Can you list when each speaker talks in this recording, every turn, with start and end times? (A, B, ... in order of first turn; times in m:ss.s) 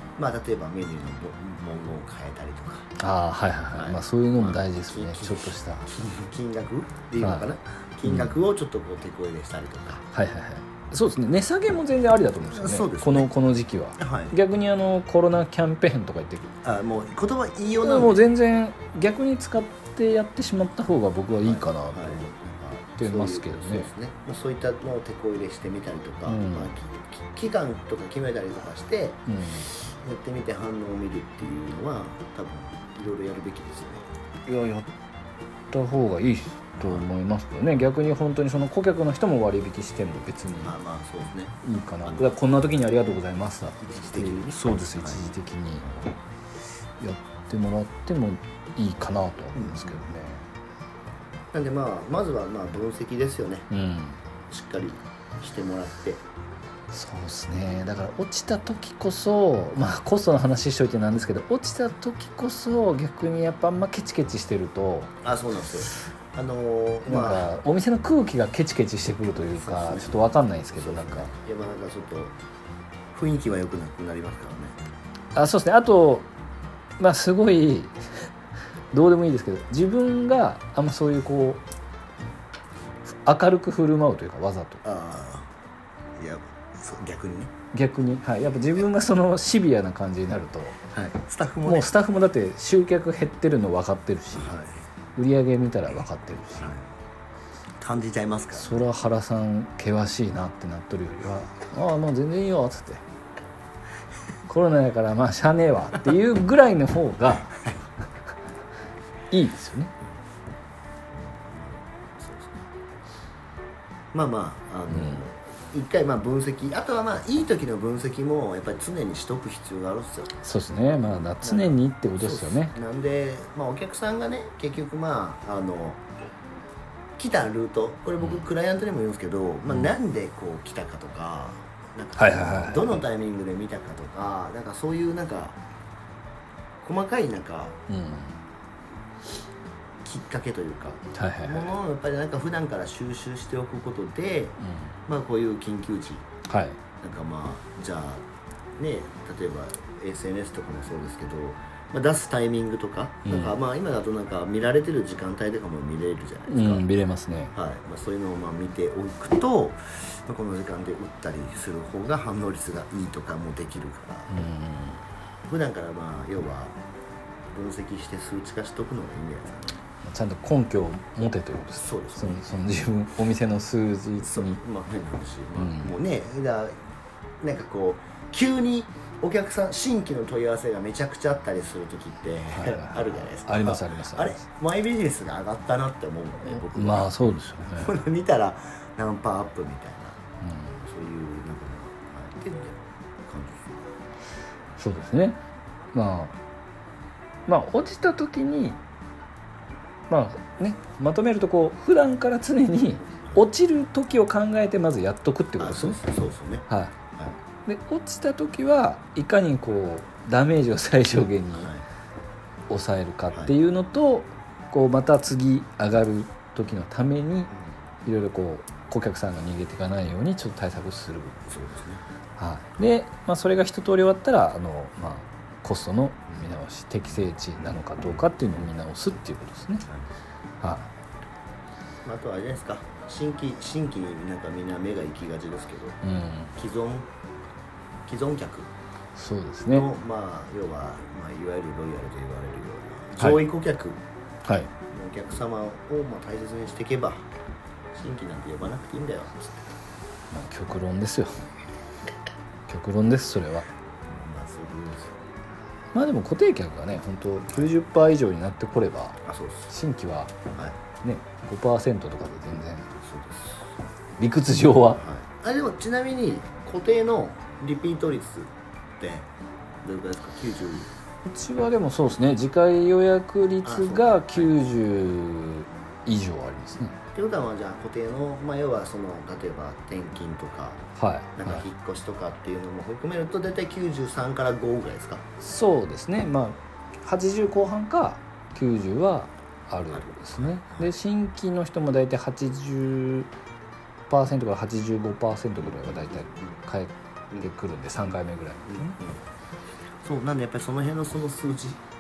0:00.2-0:02.9 A
0:03.0-0:05.9 B
0:03.7-0:10.0 A
0:08.0-0:08.3 B
0:10.1-0:16.5 B
0:12.4-0:13.3 A
0:14.0-0:14.3 A
0:16.6-0:18.2 A
0:17.8-0:22.3 B
0:21.4-0:34.1 A
0:23.0-0:23.9 B
0:26.2-0:26.7 B
0:29.3-0:29.7 B
0:34.4-0:34.9 B
0:35.7-0:40.7 B
0:36.8-0:37.0 A
0:40.6-0:42.3 A
0:41.6-0:45.8 B
0:43.8-0:45.2 A
0:47.0-0:50.5 B
0:49.6-0:50.0 A
0:51.5-0:53.7 A
0:53.7-0:54.2 B
0:54.5-0:56.2 A
0:56.9-1:05.1 B
1:05.2-1:07.5 A
1:07.0-1:11.3 B
1:09.5-1:12.3 A
1:13.1-1:14.8 A
1:15.3-1:16.3 B
1:17.0-1:18.3 B
1:18.9-1:21.6 B
1:23.1-1:24.8 B
1:24.8-1:25.5 A
1:26.2-1:27.5 A
1:27.7-1:30.8 B
1:30.9-1:31.9 A
1:31.6-1:34.6 B
1:34.3-1:34.8 A
1:35.2-1:36.7 B
1:36.6-1:36.9 A
1:37.8-1:38.8 A
1:38.5-1:43.0 B
1:44.5-1:47.6 B
1:49.3-1:49.9 B
1:51.1-1:52.6 A
1:54.1-2:00.3 A
1:54.9-1:55.2 B
2:00.4-2:02.7 B
2:01.4-2:06.0 A
2:07.2-2:15.6 A
2:12.2-2:13.0 B
2:16.8-2:17.8 A
2:17.9-2:18.4 B
2:20.0-2:26.2 A
2:21.1-2:21.7 B
2:24.6-2:24.9 B
2:26.5-2:26.8 B
2:27.0-2:28.2 A
2:28.8-2:36.8 A
2:33.2-2:33.6 B
2:36.5-2:37.5 B
2:37.5-2:44.4 A
2:44.3-2:45.0 B
2:45.5-2:46.7 A
2:47.5-2:49.8 A
2:50.0-2:54.6 B
2:51.8-2:52.5 A
2:54.2-2:56.7 A
2:55.5-2:56.0 B
2:57.4-3:10.2 A
3:02.5-3:04.4 B
3:06.5-3:08.0 B
3:10.4-3:10.8 B
3:10.8-3:13.8 A
3:14.8-3:15.4 B
3:15.9-3:16.3 B
3:17.5-3:18.8 B
3:20.1-3:26.0 B
3:25.6-3:27.3 A
3:26.7-3:26.9 B
3:27.6-3:31.7 B
3:31.5-3:31.8 A
3:32.7-3:37.5 B
3:38.0-3:41.4 B
3:41.5-3:42.0 A
3:42.4-3:49.8 B
3:50.6-3:50.9 B
3:52.0-3:56.0 A
3:56.0-3:56.5 B
3:56.5-3:57.1 A
3:58.1-3:58.7 A
3:59.2-3:59.9 B
3:59.7-4:04.0 A
4:03.2-4:03.4 B
4:04.4-4:04.7 B
4:04.9-4:07.3 A
4:07.9-4:09.6 A
4:10.3-4:11.4 B
4:12.7-4:13.7 B
4:14.1-4:15.2 A
4:15.9-4:20.5 B
4:19.2-4:19.7 A
4:21.0-4:22.9 B
4:22.9-4:23.7 A
4:24.2-4:25.0 B
4:25.0-4:29.3 A
4:29.8-4:30.9 A
4:31.2-4:37.0 B
4:33.6-4:34.5 A
4:37.1-4:40.8 A
4:41.0-4:41.6 B
4:41.4-4:45.2 A
4:45.4-4:53.3 B
4:49.9-4:50.9 A
4:54.1-4:59.0 B
4:55.6-4:56.5 A
4:58.7-4:59.2 A
5:00.0-5:01.8 A